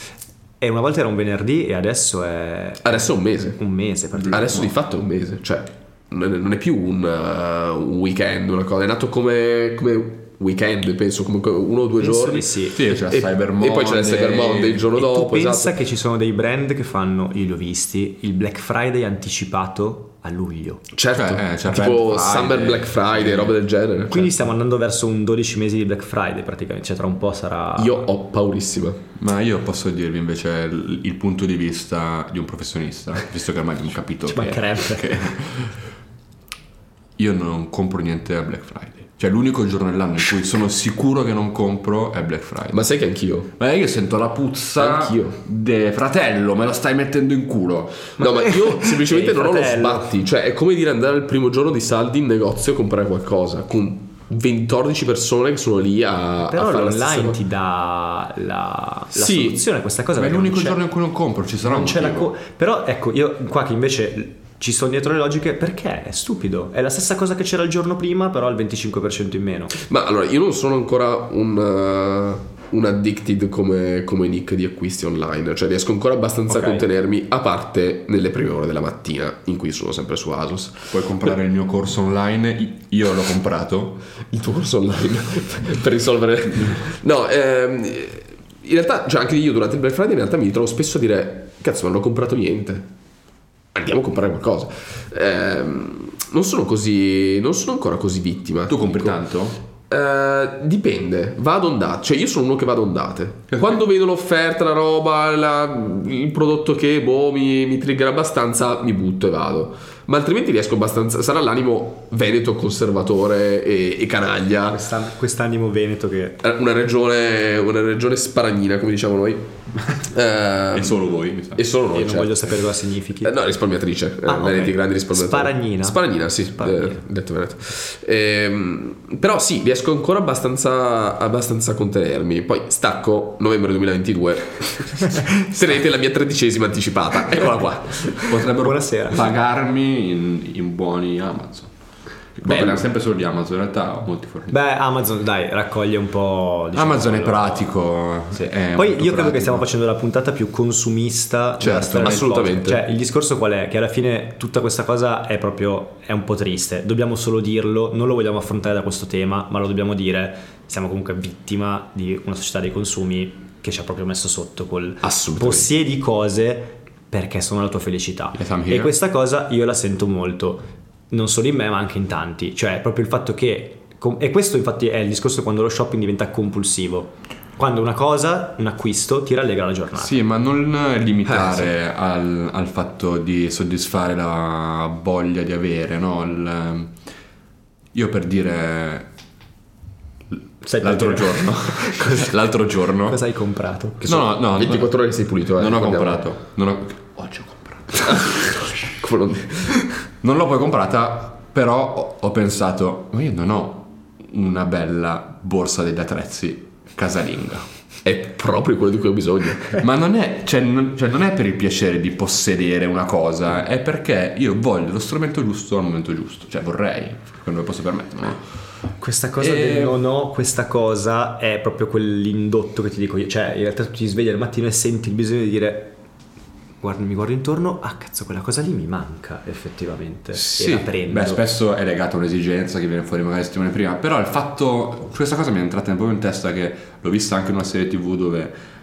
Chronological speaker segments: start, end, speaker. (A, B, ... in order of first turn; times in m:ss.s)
0:00.6-0:04.8 A
0:02.8-0:03.6 B
0:04.3-0:15.8 B
0:12.0-0:12.8 A
0:12.7-0:14.9 C
0:15.0-0:20.9 A
0:20.9-0:24.3 B
0:21.1-0:23.6 C
0:24.1-0:28.1 A
0:27.8-0:29.0 B
0:29.2-0:35.8 C
0:34.3-0:35.3 A
0:37.2-0:42.9 C
0:42.7-0:43.5 B
0:43.6-0:48.2 C
0:44.8-0:45.4 B
0:48.2-0:57.4 B
0:48.2-0:50.1 A
0:56.5-1:00.8 A
0:59.1-0:59.6 B
1:00.2-1:02.3 C
1:01.6-1:09.7 A
1:09.7-1:20.9 B
1:16.5-1:16.9 A
1:20.9-1:24.0 C
1:24.3-1:32.9 B
1:33.7-1:39.2 B
1:38.7-1:39.6 C
1:39.9-1:54.9 B
1:54.7-1:56.4 A
1:56.4-2:01.0 B
2:00.7-2:01.6 C
2:01.6-2:02.6 B
2:01.9-2:03.4 A
2:03.2-2:18.3 B
2:04.2-2:07.0 A
2:18.2-2:21.7 C
2:18.4-2:19.3 A
2:22.4-2:24.6 C
2:22.4-2:22.8 B
2:24.5-2:27.8 A
2:26.7-2:29.7 C
2:28.3-3:00.2 A
2:31.6-2:32.4 C
2:31.6-2:32.8 B
2:45.0-2:45.7 B
2:48.4-2:48.9 C
3:00.0-3:07.0 C
3:01.3-3:01.7 B
3:07.9-3:09.1 C
3:10.6-3:14.3 A
3:10.8-3:13.2 C
3:14.0-3:19.0 C
3:14.4-3:16.3 B
3:18.1-3:19.9 B
3:20.2-3:27.7 C
3:28.0-3:29.8 B
3:29.8-3:38.4 C
3:39.0-3:46.0 A
3:39.4-3:40.0 C
3:46.8-3:51.4 A
3:50.3-3:58.6 C